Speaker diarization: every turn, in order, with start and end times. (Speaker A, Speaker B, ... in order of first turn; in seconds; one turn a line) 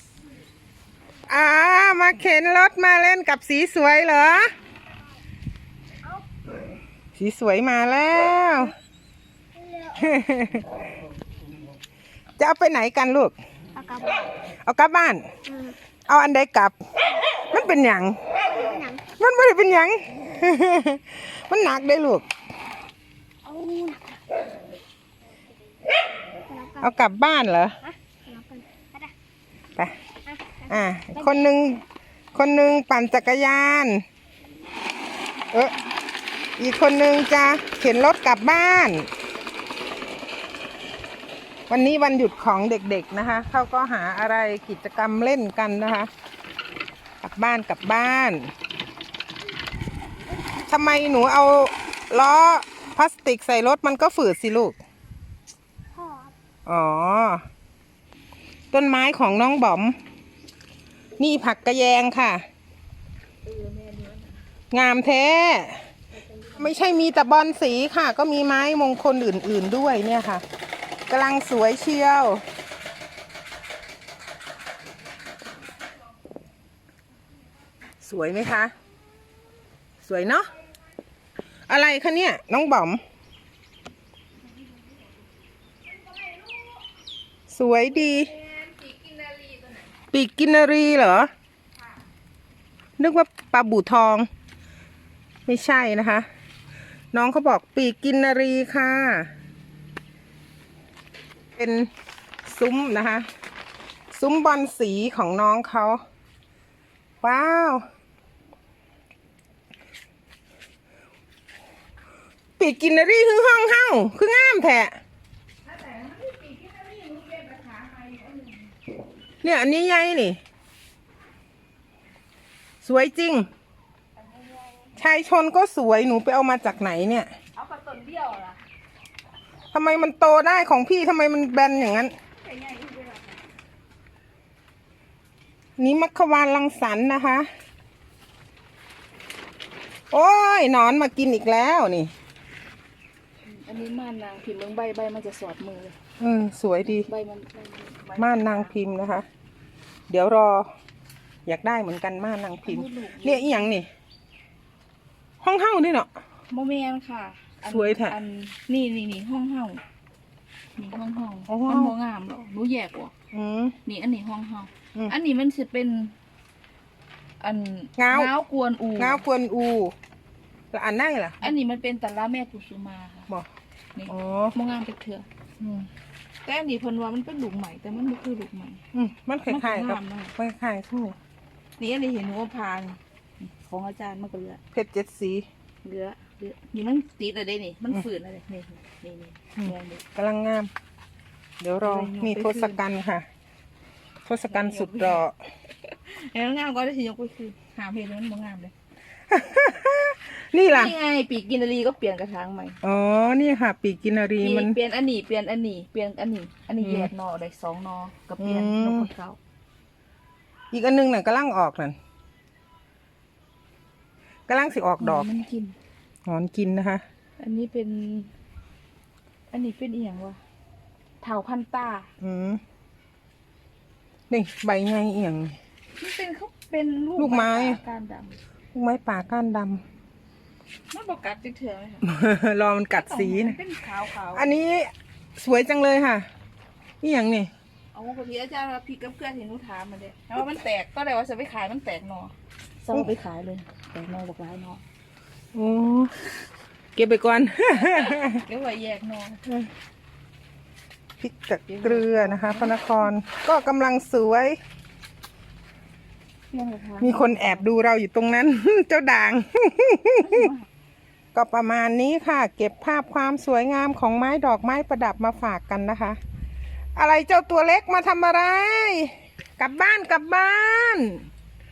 Speaker A: 1.3-4.5
Speaker A: 7.2-8.7
Speaker A: 9.9-10.8
Speaker A: 12.4-13.4
Speaker B: 13.8-14.3
Speaker A: 14.7-15.3
Speaker A: 16.1-22.3
Speaker B: 18.7-19.0
Speaker B: 23.5-24.2
Speaker B: 26.5-26.7
Speaker A: 26.7-27.8
Speaker B: 28.3-29.1
Speaker A: 30.6-31.8
Speaker A: 32.3-34.0
Speaker A: 36.6-39.1
Speaker A: 41.7-46.1
Speaker A: 47.2-48.5
Speaker A: 50.7-54.8
Speaker B: 56.0-56.3
Speaker A: 56.7-57.4
Speaker A: 58.7-60.0
Speaker A: 61.2-62.4
Speaker C: 63.5-64.4
Speaker A: 64.7-65.8
Speaker C: 66.2-66.8
Speaker A: 66.6-70.4
Speaker A: 71.1-72.4
Speaker A: 78.0-78.7
Speaker A: 80.0-80.5
Speaker A: 81.7-83.0
Speaker C: 86.0-86.8
Speaker A: 87.5-88.3
Speaker C: 87.9-89.9
Speaker A: 90.1-91.3
Speaker A: 93.0-94.3
Speaker A: 95.5-96.3
Speaker A: 97.1-99.3
Speaker A: 101.6-101.9
Speaker A: 102.5-103.3
Speaker A: 104.1-106.0
Speaker A: 107.2-107.8
Speaker A: 112.6-115.0
Speaker C: 115.7-118.7
Speaker A: 119.4-120.4
Speaker A: 122.8-123.5
Speaker C: 124.2-124.9
Speaker A: 125.0-127.3
Speaker C: 127.6-128.6
Speaker A: 129.7-132.2
Speaker C: 132.4-133.4
Speaker A: 135.8-137.5
Speaker A: 140.1-142.1
Speaker C: 143.5-145.9
Speaker A: 146.2-147.1
Speaker C: 146.9-148.7
Speaker A: 148.2-149.3
Speaker A: 150.1-150.7
Speaker A: 151.5-153.9
Speaker C: 152.7-153.7
Speaker A: 155.4-156.1
Speaker C: 156.5-159.8
Speaker A: 157.7-158.2
Speaker C: 160.8-163.1
Speaker A: 161.5-161.9
Speaker A: 163.3-163.8
Speaker C: 163.8-166.1
Speaker C: 167.4-169.2
Speaker A: 168.0-168.3
Speaker A: 169.0-169.9
Speaker A: 170.7-171.5
Speaker C: 171.4-173.3
Speaker C: 173.9-175.3
Speaker A: 174.1-174.5
Speaker A: 175.6-175.9
Speaker C: 176.4-178.8
Speaker A: 178.9-181.2
Speaker C: 179.5-180.3
Speaker C: 181.8-184.6
Speaker A: 184.7-185.5
Speaker C: 185.8-190.0
Speaker A: 189.6-190.7
Speaker A: 191.6-193.3
Speaker C: 191.8-192.8
Speaker A: 194.2-195.3
Speaker C: 194.5-195.3
Speaker C: 195.8-198.7
Speaker A: 199.3-200.9
Speaker C: 200.6-202.8
Speaker A: 202.8-204.8
Speaker C: 204.4-209.4
Speaker A: 206.8-207.1
Speaker A: 208.4-209.1
Speaker A: 210.7-212.0
Speaker A: 214.5-215.3
Speaker C: 215.0-215.8
Speaker A: 216.3-217.0
Speaker C: 217.4-218.3
Speaker C: 219.5-220.4
Speaker C: 221.2-222.1
Speaker A: 222.2-222.6
Speaker A: 224.3-225.6
Speaker C: 226.0-228.4
Speaker A: 227.2-227.8
Speaker A: 228.7-229.8
Speaker C: 230.9-232.1
Speaker A: 232.0-233.6
Speaker C: 232.9-234.6
Speaker A: 234.3-236.3
Speaker A: 237.0-237.5
Speaker C: 237.9-244.8
Speaker A: 245.5-246.2
Speaker A: 246.9-248.4
Speaker C: 247.8-249.4
Speaker A: 251.2-254.6
Speaker C: 251.7-253.1
Speaker C: 256.5-257.7
Speaker A: 257.0-260.5
Speaker C: 260.2-260.7
Speaker A: 261.3-266.2
Speaker A: 267.0-271.3